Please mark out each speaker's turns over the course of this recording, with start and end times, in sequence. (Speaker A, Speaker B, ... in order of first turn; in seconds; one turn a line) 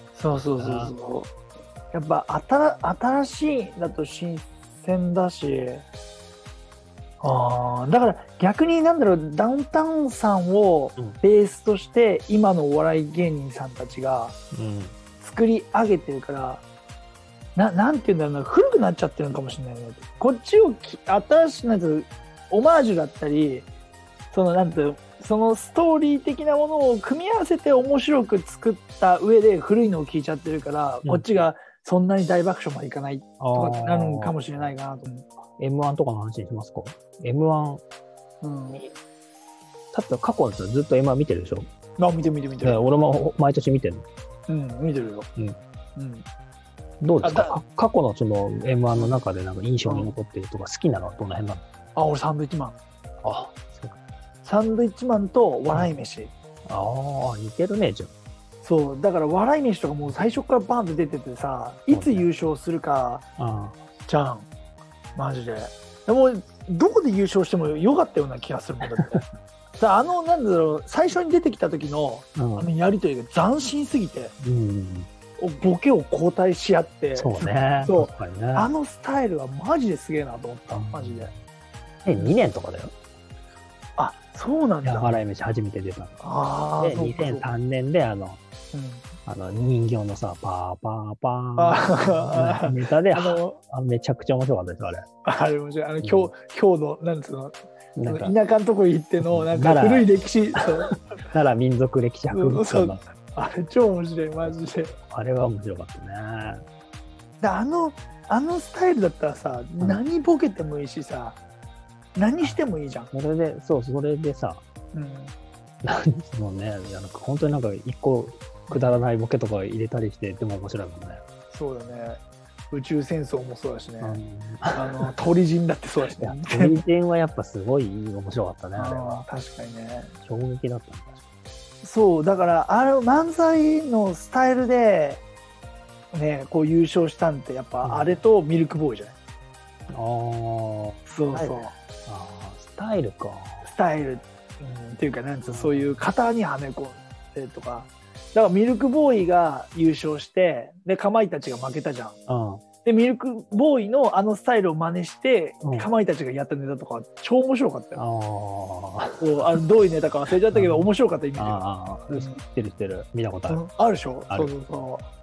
Speaker A: 0.1-1.3
Speaker B: 0.6-0.9
Speaker A: 1.9-5.9
Speaker A: 7.2-14.4
Speaker B: 14.5-14.9
Speaker A: 15.2-16.6
Speaker A: 17.6-23.7
Speaker A: 24.3-35.3
Speaker B: 33.4-34.6
Speaker B: 35.6-37.8
Speaker A: 38.4-39.0
Speaker B: 39.9-41.7
Speaker A: 42.0-42.8
Speaker B: 42.6-44.1
Speaker A: 44.5-45.3
Speaker A: 46.0-46.2
Speaker B: 47.0-51.6
Speaker A: 47.2-47.6
Speaker A: 49.0-49.2
Speaker A: 49.9-50.1
Speaker A: 52.0-52.8
Speaker B: 53.2-54.0
Speaker A: 54.4-56.3
Speaker B: 56.7-58.1
Speaker A: 58.6-63.2
Speaker B: 61.9-62.3
Speaker B: 63.4-63.8
Speaker A: 64.1-64.5
Speaker A: 65.2-69.3
Speaker A: 69.8-74.3
Speaker B: 72.4-72.7
Speaker B: 74.4-75.1
Speaker A: 75.4-81.3
Speaker B: 77.2-78.7
Speaker B: 80.7-81.3
Speaker B: 82.0-82.9
Speaker A: 82.1-82.4
Speaker A: 84.0-85.2
Speaker B: 84.8-86.2
Speaker A: 86.2-87.5
Speaker B: 86.8-88.4
Speaker A: 88.7-89.0
Speaker B: 89.3-95.1
Speaker A: 91.6-93.6
Speaker A: 95.2-100.9
Speaker B: 96.0-96.3
Speaker B: 98.0-98.3
Speaker B: 99.2-100.1
Speaker B: 100.9-103.0
Speaker A: 102.3-105.0
Speaker B: 104.4-106.6
Speaker A: 107.4-111.4
Speaker A: 112.2-113.1
Speaker B: 113.1-114.6
Speaker A: 114.9-115.3
Speaker B: 115.8-121.2
Speaker A: 118.7-119.0
Speaker A: 121.5-122.2
Speaker A: 122.7-124.2
Speaker B: 124.0-125.1
Speaker A: 124.7-126.8
Speaker B: 126.2-129.3
Speaker A: 128.8-130.2
Speaker B: 130.2-131.2
Speaker A: 131.8-135.2
Speaker A: 136.1-139.2
Speaker B: 137.8-138.2
Speaker B: 139.9-143.6
Speaker A: 141.1-141.7
Speaker A: 143.6-152.2
Speaker B: 145.4-146.0
Speaker B: 152.3-152.6
Speaker A: 152.8-158.0
Speaker B: 155.6-155.9
Speaker B: 158.0-159.4
Speaker A: 159.2-162.4
Speaker B: 160.5-163.6
Speaker A: 163.5-165.1